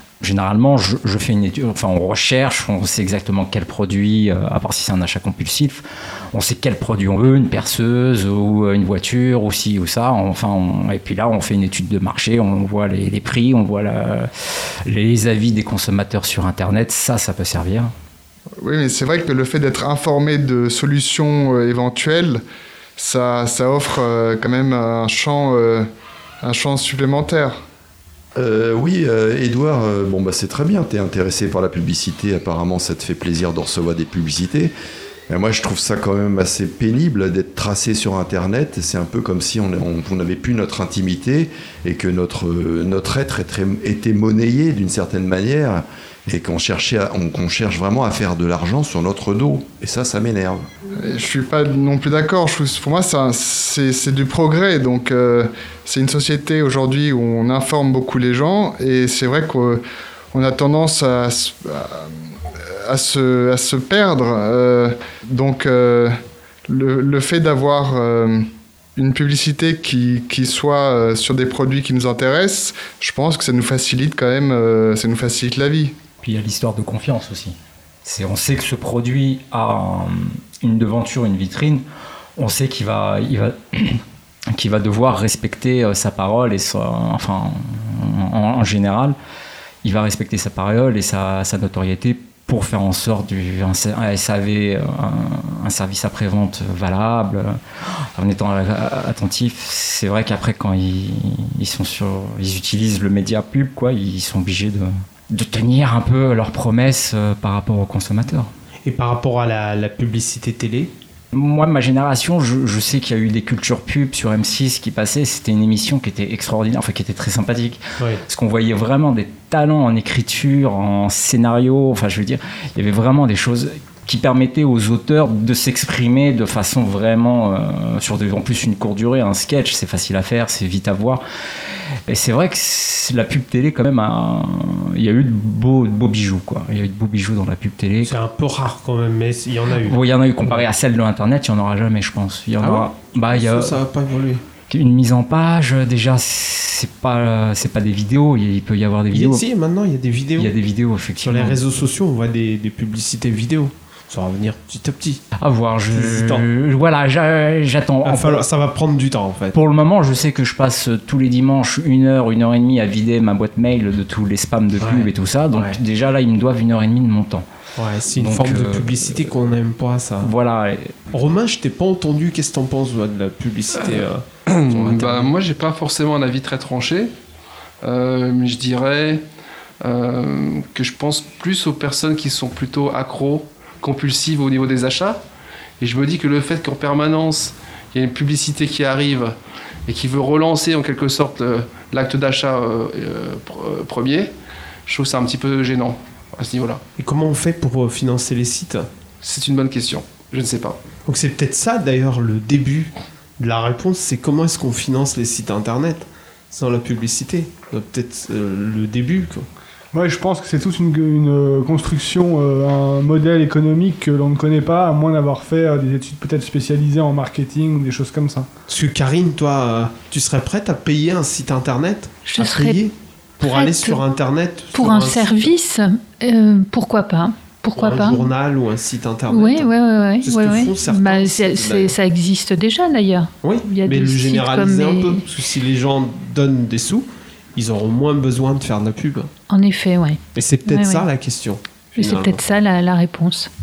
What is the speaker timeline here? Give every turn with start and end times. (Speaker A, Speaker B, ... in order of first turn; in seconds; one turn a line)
Speaker A: 0.2-14.3
Speaker A: 14.8-17.9
Speaker B: 18.6-22.4
Speaker B: 23.0-25.9
Speaker B: 26.4-27.6
Speaker C: 28.4-34.7
Speaker C: 35.3-50.6
Speaker B: 51.0-59.8
Speaker B: 60.3-62.1
Speaker B: 62.9-66.1
Speaker B: 66.7-68.4
Speaker B: 69.0-75.9
Speaker A: 76.2-81.8
Speaker A: 82.4-84.0
Speaker A: 84.5-89.1
Speaker A: 89.8-97.6
Speaker A: 98.2-108.5
Speaker D: 108.8-110.9
Speaker A: 111.3-131.2
Speaker A: 132.1-138.1
Speaker D: 138.0-140.7
Speaker A: 139.8-143.8
Speaker D: 142.6-144.4
Speaker A: 144.7-149.4
Speaker D: 149.1-150.5
Speaker A: 150.4-151.6
Speaker D: 151.2-155.2
Speaker A: 155.4-158.4
Speaker D: 155.9-156.4
Speaker D: 158.0-159.6
Speaker A: 159.5-167.4
Speaker D: 164.8-165.8
Speaker D: 167.8-170.3
Speaker A: 168.1-169.3
Speaker A: 170.2-170.9
Speaker D: 171.1-175.3
Speaker E: 174.5-177.1
Speaker E: 177.8-179.2
Speaker E: 179.8-185.2
Speaker E: 185.8-194.3
Speaker E: 194.9-196.8
Speaker D: 197.0-198.9
Speaker E: 199.2-200.8
Speaker D: 201.1-209.5
Speaker F: 209.9-218.5
Speaker D: 218.7-225.5
Speaker G: 222.2-222.8
Speaker G: 223.5-224.0
Speaker G: 224.7-228.3
Speaker D: 227.7-232.0
Speaker G: 229.3-235.3
Speaker D: 233.4-239.3
Speaker G: 239.5-241.0
Speaker D: 240.3-242.4
Speaker G: 241.9-243.5